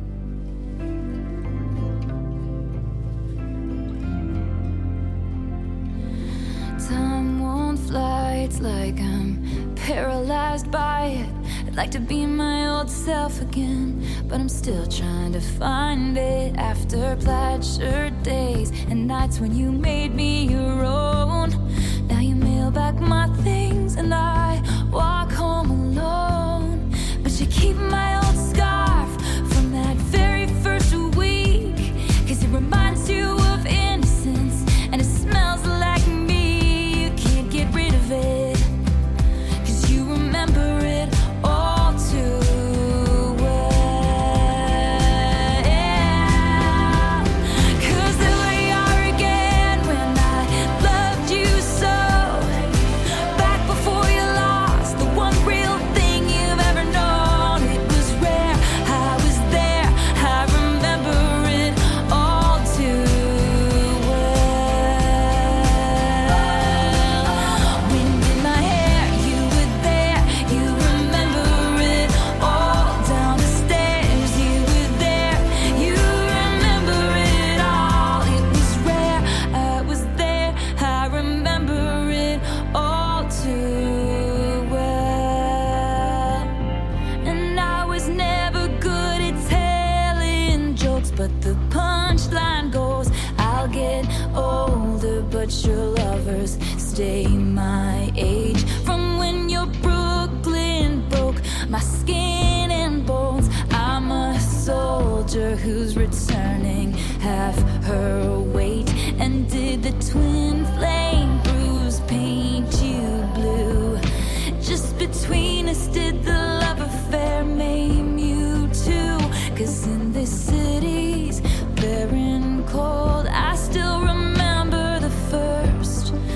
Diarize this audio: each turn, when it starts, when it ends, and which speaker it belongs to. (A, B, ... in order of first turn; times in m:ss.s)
0:06.8-0:38.7 A
0:39.6-1:26.6 A
1:27.2-1:54.0 A
1:54.6-2:06.2 A